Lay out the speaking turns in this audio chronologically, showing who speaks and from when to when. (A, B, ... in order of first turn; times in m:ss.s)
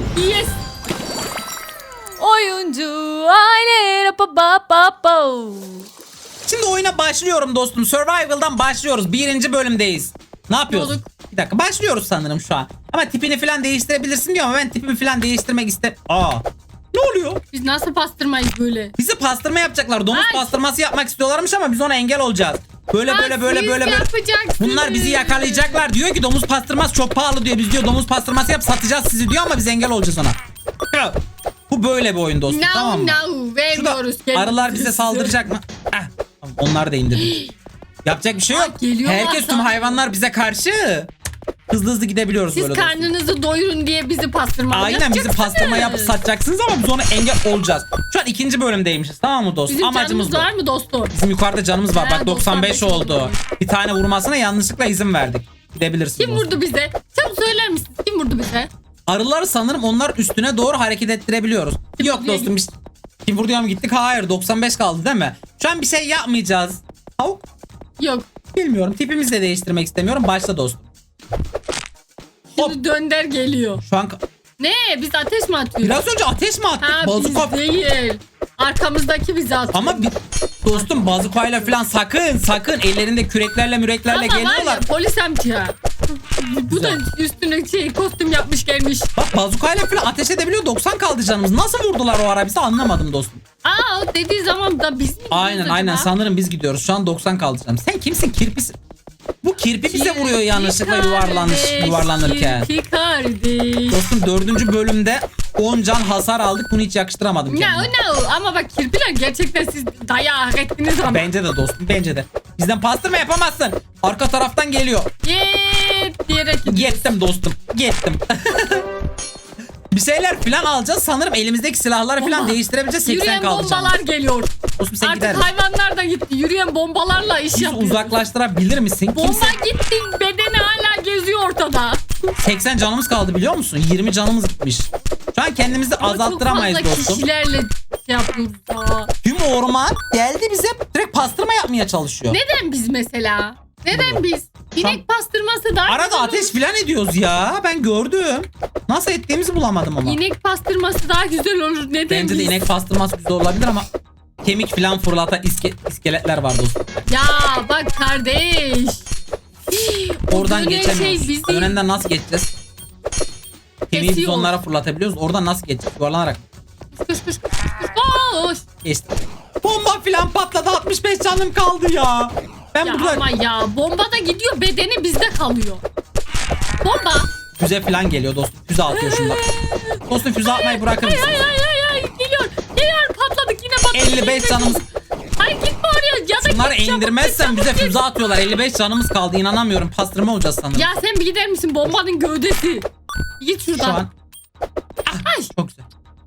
0:00.2-0:00.6 A
0:02.2-0:05.9 A
0:06.4-0:17.4 B
0:10.7-0:11.1 A
0:17.5-0:18.9 A
0:19.0-0:30.4 B
0:20.1-0:20.5 A
0:23.1-0:25.9 A
0:30.9-0:33.2 B
0:32.5-0:35.4 A
0:33.7-0:37.4 B
0:37.2-0:37.5 A
0:38.0-0:41.1 B
0:38.5-0:40.0 A
0:41.7-0:43.1 B
0:42.5-0:46.2 A
0:44.7-0:50.5 B
0:49.7-0:51.1 A
0:51.1-0:56.6 B
0:51.9-0:53.4 A
0:56.2-0:58.7 A
0:59.1-1:02.7 B
1:02.0-1:02.5 A
1:03.3-1:07.4 B
1:08.0-1:08.3 A
1:08.6-1:10.9 B
1:12.6-1:13.8 A
1:13.8-1:14.2 B
1:14.6-1:16.0 A
1:15.8-1:17.6 B
1:16.8-1:20.1 A
1:19.7-1:24.8 B
1:20.7-1:21.8 A
1:24.1-1:25.8 A
1:26.3-1:29.1 A
1:26.7-1:27.0 B
1:29.2-1:33.4 B
1:33.6-1:36.1 A
1:35.3-1:38.8 B
1:39.4-1:42.7 B
1:39.8-1:44.1 A
1:43.9-1:47.9 B
1:47.5-1:51.3 A
1:51.0-1:55.1 B
1:55.2-1:57.1 A
1:56.6-1:58.9 B
1:59.9-2:04.0 B
2:02.2-2:08.2 A
2:04.8-2:05.5 B
2:07.5-2:09.6 B
2:09.2-2:12.0 A
2:12.4-2:17.2 B
2:16.0-2:19.1 A
2:19.2-2:22.4 B
2:22.3-2:26.6 A
2:23.9-2:24.2 B
2:25.9-2:30.2 B
2:30.0-2:32.6 A
2:32.1-2:33.9 B
2:34.4-2:37.0 B
2:37.1-2:39.1 A
2:39.7-2:41.8 A
2:40.3-2:42.5 B
2:43.9-2:46.4 B
2:43.9-2:44.6 A
2:46.9-2:48.6 A
2:48.8-2:53.3 B
2:52.8-2:55.8 A
2:56.8-2:57.3 A
2:57.6-2:59.4 B
2:58.9-3:04.9 A
3:00.0-3:01.4 B
3:03.9-3:04.8 B
3:05.4-3:08.2 A
3:06.4-3:10.9 B
3:10.7-3:12.9 A
3:13.4-3:14.0 A
3:13.8-3:14.1 B
3:15.1-3:15.9 B
3:15.2-3:15.5 A